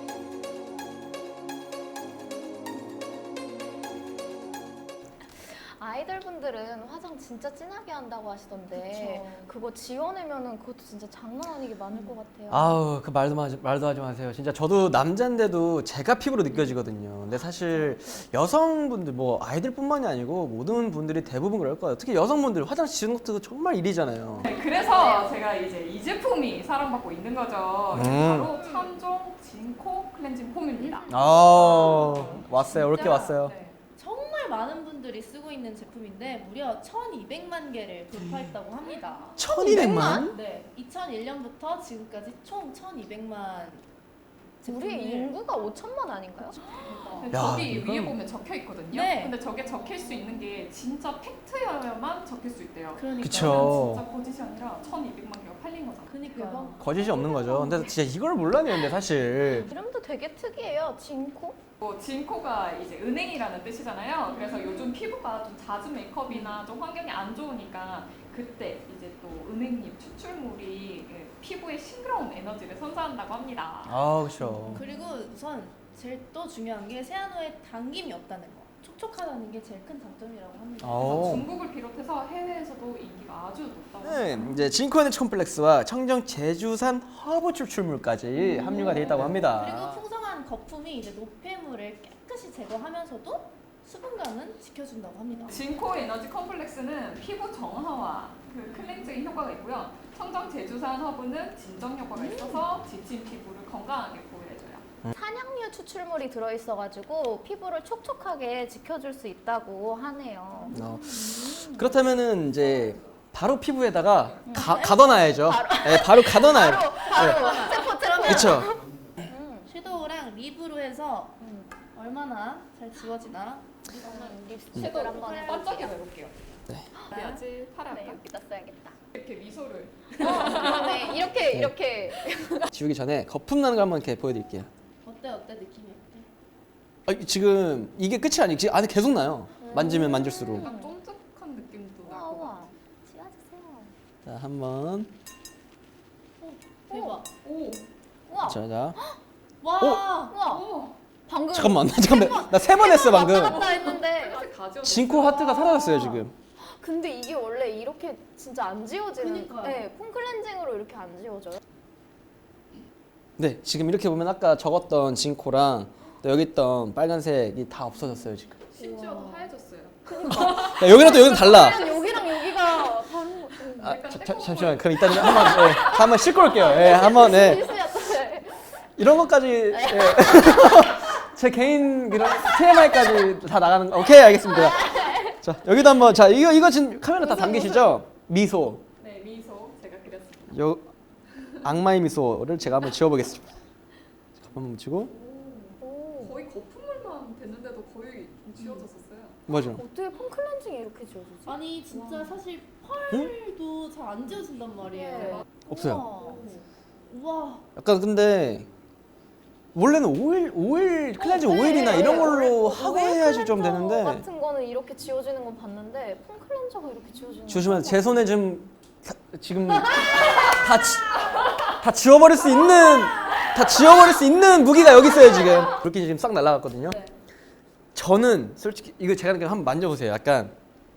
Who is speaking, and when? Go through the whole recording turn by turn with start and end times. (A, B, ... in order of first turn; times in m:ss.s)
0:05.3-0:12.8 A
0:08.8-0:09.4 B
0:09.0-0:09.3 C
0:12.5-0:24.5 D
0:24.4-0:31.1 B
0:24.5-0:25.4 C
0:27.9-0:28.5 D
0:28.5-0:28.9 C
0:30.8-0:43.9 C
0:31.1-0:33.6 D
0:31.7-0:32.0 B
0:33.0-0:33.8 B
0:39.0-0:39.4 B
0:39.4-0:40.4 D
0:39.7-0:40.3 A
0:44.6-0:45.4 C
0:44.7-0:47.0 A
0:46.8-0:56.4 B
0:47.3-0:48.2 D
0:48.9-0:50.3 C
0:52.9-0:54.0 C
0:53.2-0:54.0 D
0:56.1-0:56.9 C
0:56.3-0:57.9 A
0:56.8-0:59.7 D
0:59.5-1:01.6 A
1:01.8-1:15.2 B
1:04.3-1:04.9 C
1:06.3-1:06.6 C
1:13.8-1:14.8 D
1:14.8-1:21.5 C
1:20.8-1:21.5 D
1:21.0-1:24.6 B
1:24.0-1:30.0 D
1:28.5-1:35.6 C
1:28.6-1:29.2 A
1:35.5-1:44.8 B
1:42.1-1:42.6 A
1:45.1-1:52.0 A
1:50.7-1:57.4 D
1:54.5-1:59.7 A
1:54.5-1:55.3 C
1:56.4-1:58.7 C
1:58.2-1:58.7 D
1:59.6-2:01.4 C
2:01.4-2:01.7 A
2:01.9-2:04.3 C
2:04.0-2:06.4 B
2:04.0-2:06.0 A
2:05.1-2:05.7 C
2:07.1-2:07.4 C
2:07.1-2:08.2 B
2:07.8-2:09.0 A
2:09.1-2:11.2 B
2:10.2-2:12.7 A
2:11.5-2:11.7 D
2:12.7-2:14.7 D
2:15.0-2:16.3 C
2:17.1-2:20.7 D
2:19.6-2:20.9 A
2:20.6-2:22.6 B
2:22.0-2:23.9 A
2:24.3-2:25.1 D
2:26.4-2:27.3 C
2:26.9-2:27.2 A
2:27.4-2:27.9 B
2:28.3-2:29.2 A
2:28.4-2:29.0 D
2:29.6-2:30.4 C
2:30.3-2:30.7 A
2:30.5-2:31.0 B
2:31.3-2:34.5 A
2:31.5-2:33.7 D
2:33.2-2:35.6 B
2:34.8-2:36.4 D
2:35.5-2:41.6 A
2:39.2-2:39.9 C
2:43.4-2:48.6 D
2:48.7-2:52.3 B
2:48.8-2:49.5 A
2:50.1-2:54.0 A
2:50.3-2:51.8 D
2:53.8-2:55.9 B
2:53.8-2:57.7 D
2:55.1-2:58.9 A
2:59.0-3:08.8 D
2:59.7-3:01.0 A
3:02.2-3:03.1 A
3:04.3-3:05.4 A
3:07.2-3:08.0 A
3:09.0-3:10.6 B
3:10.5-3:10.9 D
3:11.6-3:13.6 D
3:14.4-3:15.1 D
3:15.1-3:19.4 B
3:15.8-3:16.4 A
3:19.5-3:19.8 D
3:19.5-3:21.6 A
3:21.5-3:26.5 C
3:21.9-3:22.4 B
3:24.8-3:25.4 A
3:25.2-3:25.5 B
3:25.7-3:26.0 D
3:26.0-3:26.4 A
3:26.2-3:26.7 B
3:27.1-3:27.7 C
3:27.8-3:28.7 D
3:29.8-3:34.2 D
3:31.2-3:38.1 A
3:37.5-3:47.0 D
3:43.2-3:43.5 C
3:45.2-3:45.6 A
3:48.0-3:50.6 D